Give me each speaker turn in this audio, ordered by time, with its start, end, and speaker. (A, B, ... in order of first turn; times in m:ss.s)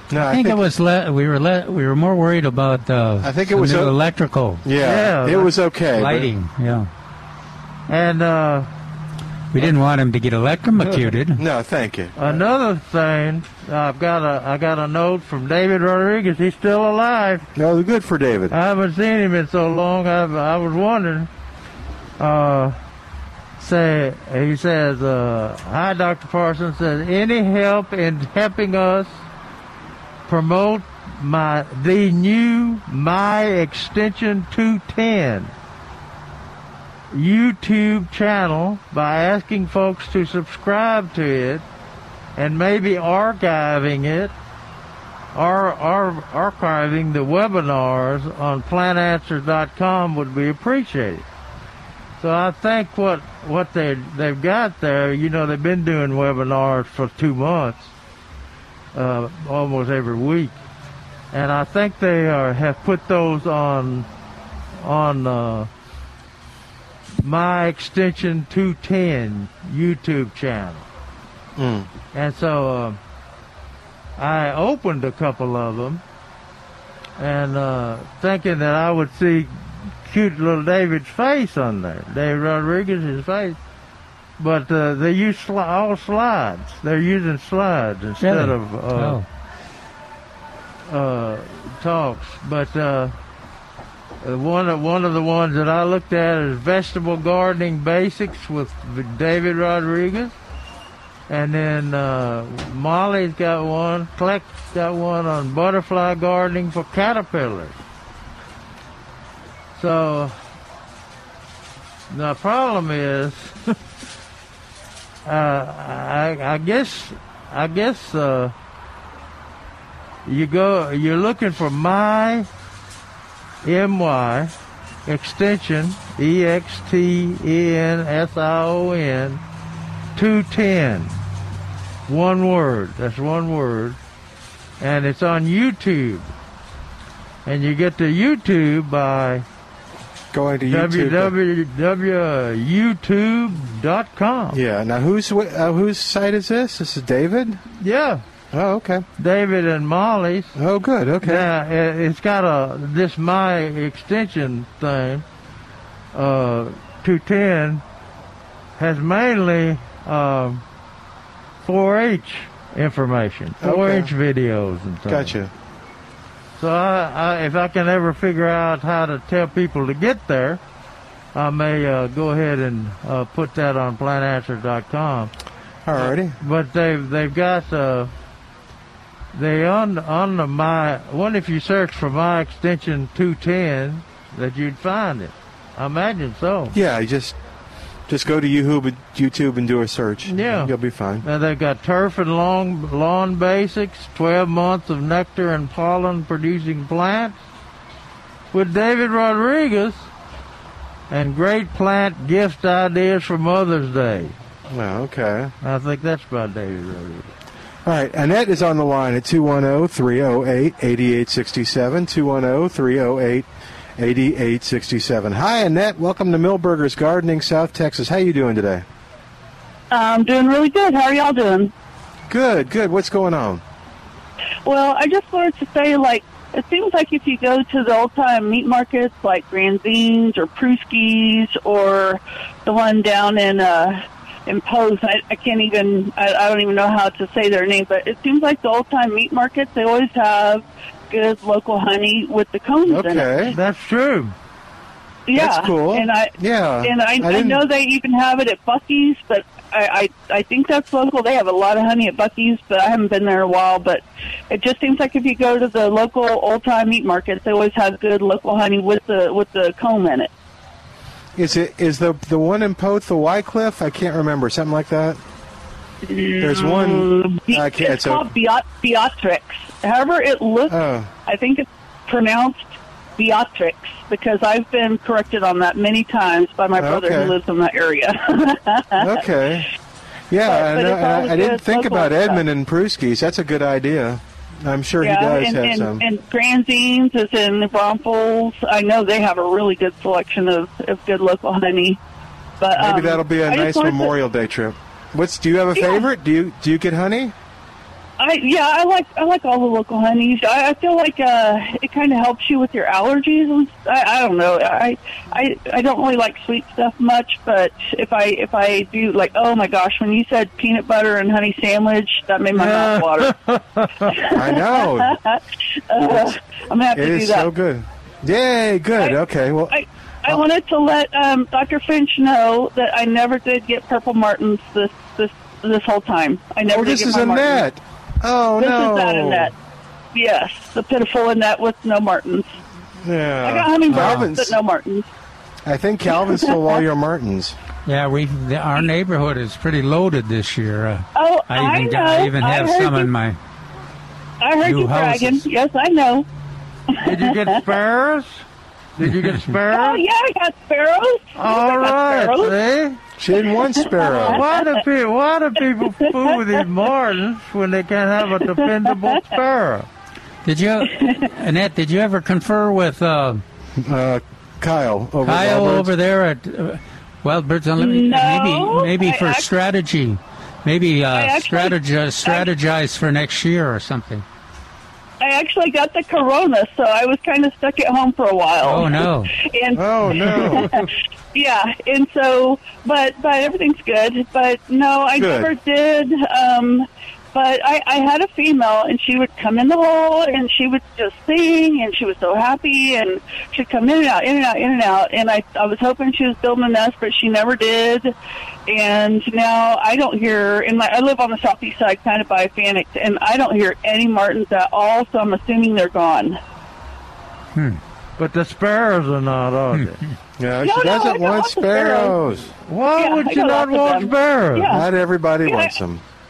0:00.1-0:00.6 A
0:00.3-0:04.6 B
0:03.2-0:04.0 A
0:04.6-0:06.3 A
0:04.8-0:05.5 C
0:06.0-0:06.9 B
0:07.9-0:08.7 C
0:09.5-0:11.4 B
0:11.4-0:12.2 A
0:12.2-0:17.5 C
0:17.6-0:18.6 A
0:18.5-0:21.3 C
0:22.2-0:22.8 C
0:23.6-0:29.2 C
0:30.3-0:35.5 C
0:37.1-0:41.6 C
0:42.4-0:44.3 C
0:45.3-0:51.2 C
0:52.2-0:57.9 C
0:58.9-1:00.6 C
1:01.3-1:04.1 C
1:04.8-1:05.7 C
1:07.2-1:10.9 C
1:11.6-1:11.9 A
1:12.1-1:13.0 C
1:14.2-1:16.0 C
1:17.2-1:23.6 C
1:24.4-1:29.2 C
1:28.2-1:29.3 B
1:30.9-1:33.1 C
1:34.2-1:40.4 C
1:41.3-1:47.8 C
1:49.8-1:50.3 C
1:52.1-1:53.6 C
1:55.3-1:58.5 C
2:00.2-2:02.5 C
2:03.6-2:04.5 C
2:05.1-2:09.4 C
2:10.2-2:11.2 C
2:12.1-2:14.0 C
2:14.8-2:16.3 C
2:17.4-2:19.4 C
2:20.3-2:21.3 A
2:20.7-2:24.6 C
2:24.5-2:27.6 A
2:27.8-2:28.2 C
2:28.5-2:29.0 A
2:29.2-2:30.5 C
2:30.6-2:31.5 A
2:31.2-2:35.2 C
2:36.1-2:37.8 C
2:38.8-2:40.6 C
2:41.6-2:45.3 C
2:43.6-2:44.1 A
2:45.1-2:45.5 A
2:46.6-2:50.6 C
2:51.4-2:55.3 C
2:55.8-2:56.4 A
2:55.9-2:58.1 C
2:59.3-3:06.8 C
3:06.7-3:07.4 A
3:08.1-3:11.2 A
3:10.3-3:10.7 C
3:11.2-3:17.4 C
3:18.5-3:20.1 C
3:21.1-3:24.4 C
3:24.7-3:25.5 A
3:25.6-3:27.3 C
3:27.8-3:38.8 A
3:39.9-3:41.7 D
3:42.3-3:43.6 A
3:44.7-4:03.4 D
4:02.9-4:03.6 A
4:03.5-4:04.3 C
4:05.3-4:20.3 D
4:05.4-4:07.6 A
4:21.4-4:25.2 A
4:26.0-4:30.8 D
4:26.4-4:28.3 A
4:30.7-4:31.1 A
4:31.3-4:39.2 D
4:36.8-4:37.4 A
4:39.0-4:39.7 A
4:40.3-4:46.0 A
4:40.4-4:42.4 D
4:45.0-4:52.0 D
4:52.6-4:54.1 D
4:52.8-4:57.3 A
4:55.8-4:56.0 D
4:58.2-5:13.4 D
5:12.5-5:14.4 C
5:14.1-5:17.5 D
5:14.3-5:15.2 A
5:16.9-5:20.4 A
5:19.7-5:27.6 D
5:26.7-5:29.5 A
5:28.6-5:29.5 D
5:30.2-5:32.5 D
5:33.0-5:34.6 A
5:33.4-5:35.1 D
5:33.9-5:34.3 B
5:35.7-5:37.5 A
5:36.2-5:36.8 D
5:37.9-5:43.4 B
5:41.2-5:43.1 D
5:44.4-5:46.3 D
5:44.6-5:45.5 B
5:47.0-5:47.6 D
5:47.0-5:48.4 C
5:49.0-5:50.0 C
5:49.7-5:52.6 D
5:51.4-5:53.0 C
5:53.2-5:54.4 A
5:53.8-5:54.7 D
5:54.2-5:59.9 C
6:00.4-6:03.4 B
6:00.9-6:01.2 D
6:03.8-6:05.9 A
6:05.2-6:14.2 B
6:07.8-6:09.5 D
6:11.1-6:12.5 D
6:15.2-6:38.1 D
6:18.6-6:19.3 B
6:19.8-6:20.7 A
6:25.2-6:25.5 A
6:38.7-6:46.4 D
6:47.6-6:47.8 B
6:48.2-6:50.0 C
6:50.4-6:52.5 A
6:50.6-6:52.2 D
6:52.7-6:54.8 C
6:52.9-6:54.8 D
6:54.7-6:56.0 A
6:55.4-6:55.7 D